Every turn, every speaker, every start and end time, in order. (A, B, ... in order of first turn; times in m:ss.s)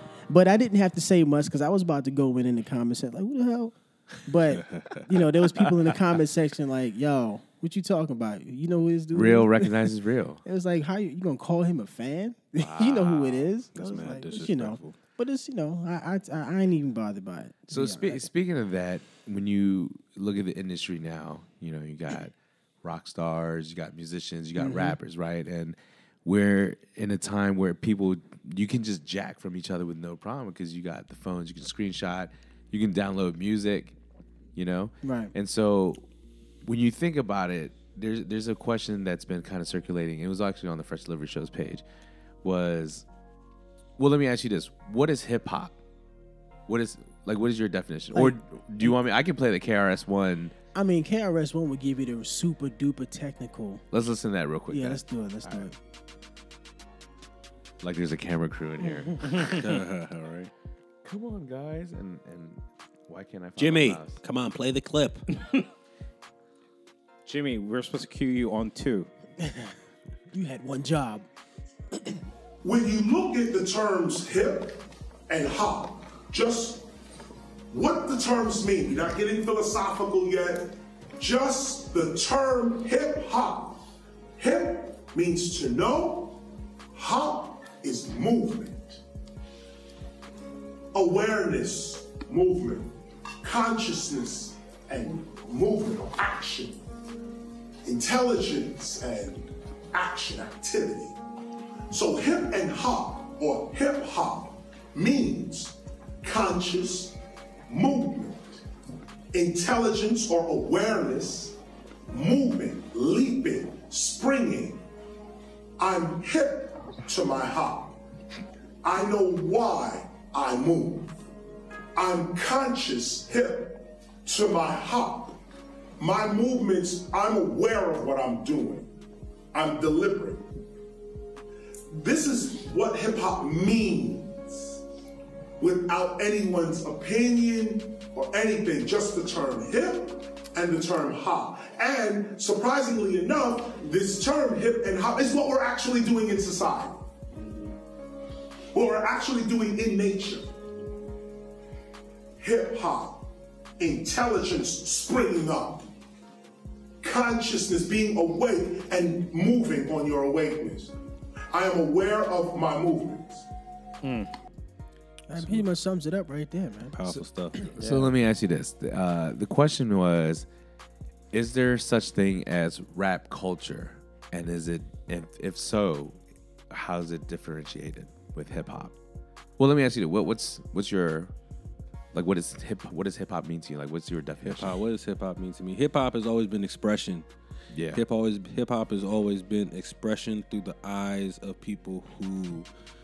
0:00.3-0:09.9 A
0:04.5-0:05.0 B
0:09.1-0:10.4 C
0:10.4-0:18.2 A
0:12.6-0:13.2 C
0:13.2-0:15.0 B
0:17.7-0:34.0 C
0:24.6-0:25.0 A
0:34.5-0:36.0 C
0:35.0-0:35.3 A
0:36.6-0:41.8 C
0:42.4-0:43.0 C
0:44.0-0:45.7 C
0:46.7-0:50.5 C
0:50.7-0:53.8 A
0:53.9-0:55.7 C
0:54.7-0:55.7 A
0:57.8-0:59.6 C
0:59.4-1:00.5 B
1:01.0-1:04.2 C
1:03.6-1:05.3 B
1:07.2-1:09.1 D
1:09.4-1:09.7 A
1:10.3-1:11.2 A
1:12.6-1:16.8 E
1:17.7-1:23.8 E
1:24.4-1:26.4 E
1:26.9-1:29.0 E
1:30.9-1:36.8 E
1:37.8-1:41.1 E
1:41.9-1:48.6 E
1:49.3-1:51.6 E
1:52.1-1:54.8 E
1:55.8-1:58.0 E
1:58.8-2:01.2 E
2:01.9-2:05.4 E
2:06.0-2:08.9 E
2:09.5-2:10.5 E
2:11.9-2:14.8 E
2:15.6-2:27.0 E
2:28.7-2:30.5 E
2:32.4-2:33.3 E
2:33.8-2:35.9 E
2:37.0-2:40.9 E
2:41.5-2:43.5 E
2:44.0-2:44.3 D
2:45.3-2:47.0 A
2:46.9-2:47.7 B
2:47.8-2:50.5 C
2:47.8-2:48.1 D
2:51.3-2:56.2 C
2:56.7-2:58.9 C
2:59.6-3:01.3 C
3:02.1-3:04.8 C
3:04.4-3:07.2 B
3:07.7-3:08.0 C
3:07.9-3:12.7 B